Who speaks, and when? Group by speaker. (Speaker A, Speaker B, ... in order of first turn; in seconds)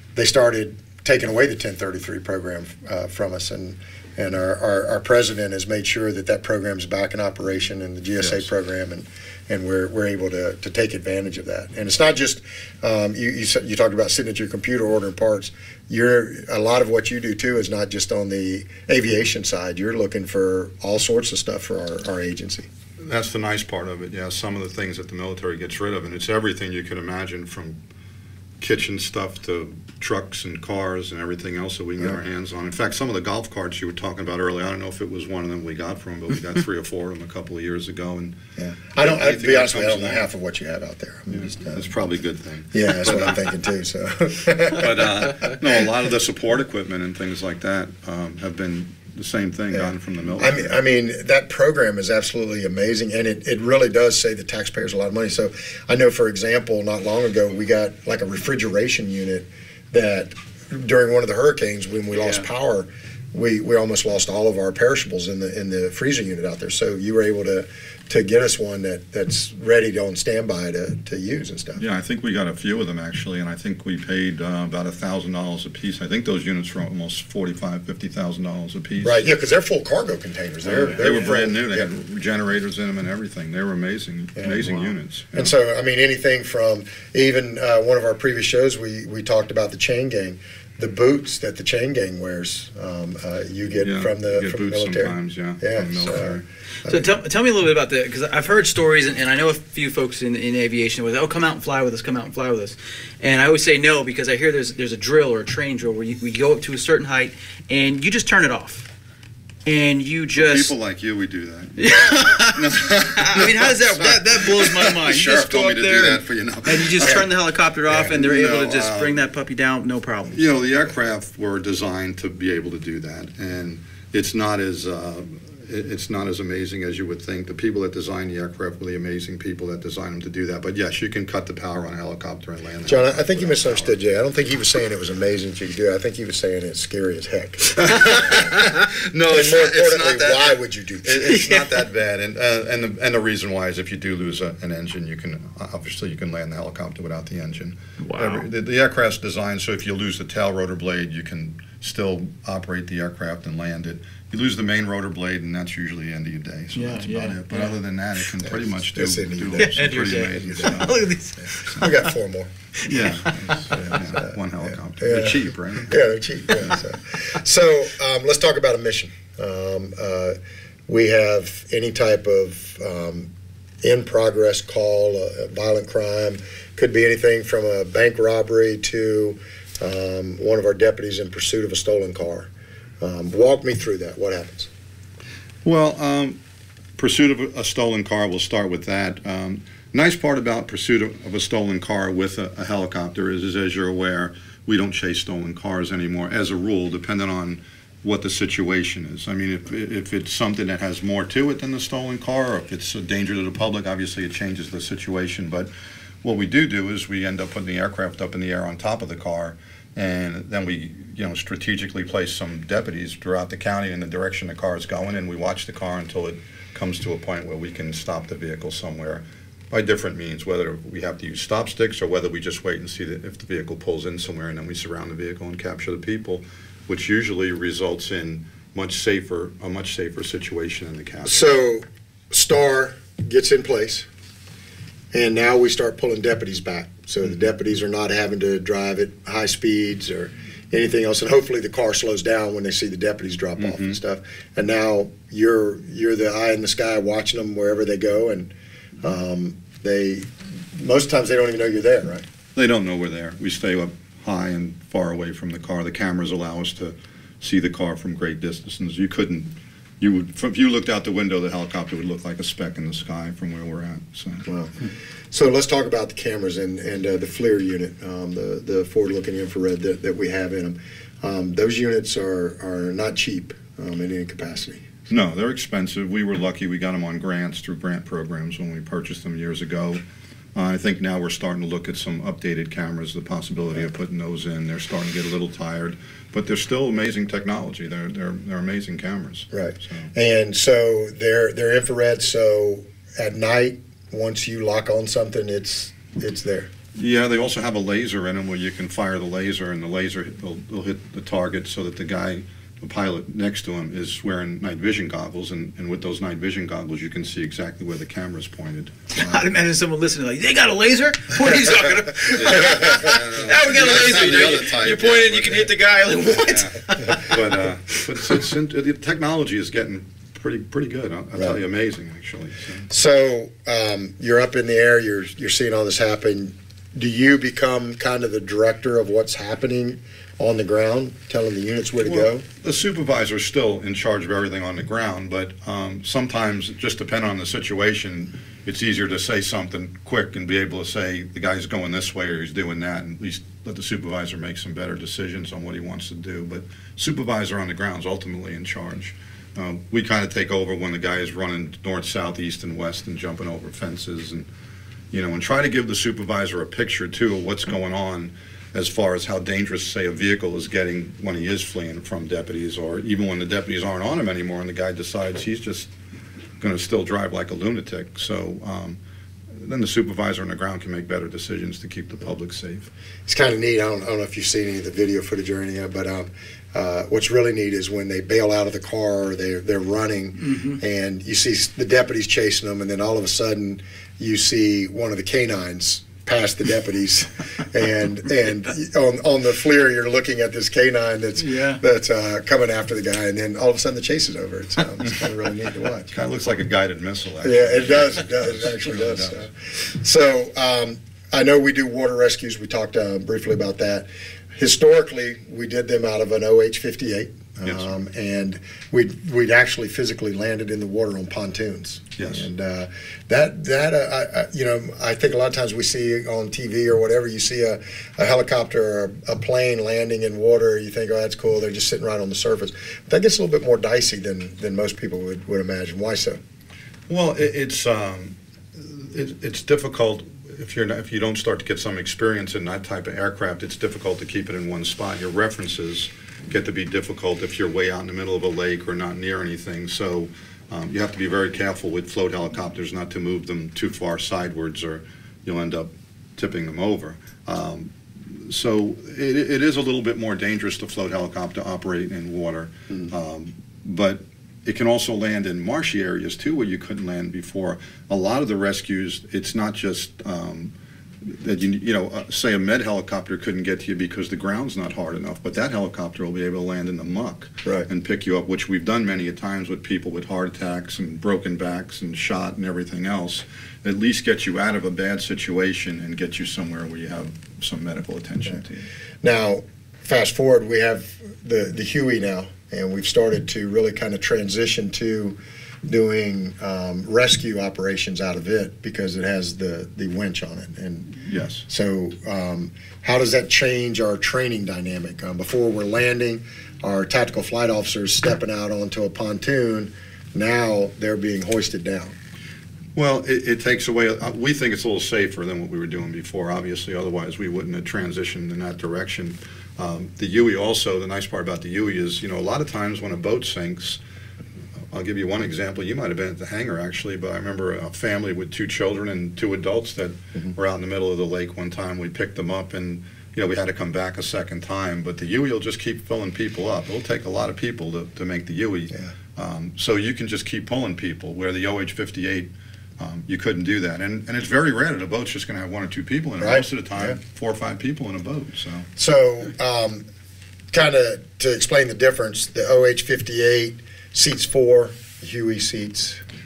Speaker A: 0.1-22.7, 38.6-41.9, 42.7-45.4, 49.7-71.8, 79.0-81.9, 84.4-97.0, 132.9-141.4, 158.4-162.5, 163.7-164.3, 165.0-173.3, 173.8-182.5, 183.0-184.7, 231.2-234.1, 235.1-252.3, 264.4-274.9, 289.5-296.7, 322.9-332.4, 373.3-396.1, 397.4-426.4, 479.2-502.1, 536.4-537.2, 539.0-540.0, 540.7-546.2
Speaker B: 8.2-8.5, 23.0-27.8, 28.6-38.4, 39.0-40.3, 41.3-43.5, 44.8-50.8, 71.8-79.3, 80.6-85.5, 93.8-96.5, 110.3-119.2, 120.3-134.0, 137.8-161.1, 161.6-161.9, 162.8-166.8, 185.6-186.4, 187.0-205.7, 206.2-231.4, 243.6-244.0, 252.6-264.4, 275.1-280.0, 280.6-290.1, 296.9-309.0, 312.3-315.7, 316.4-322.9, 332.0-354.5, 355.1-365.9, 366.6-369.0, 369.5-372.9, 396.1-399.4, 407.6-407.9, 412.2-412.5, 427.1-478.9, 491.3-491.6, 502.9-514.0, 514.9-538.9
Speaker C: 96.8-108.9, 109.7-110.7, 111.8-120.4, 141.4-141.7, 148.0-148.5, 156.8-157.8, 159.6-162.1, 162.8-163.5, 309.1-318.0, 391.4-391.8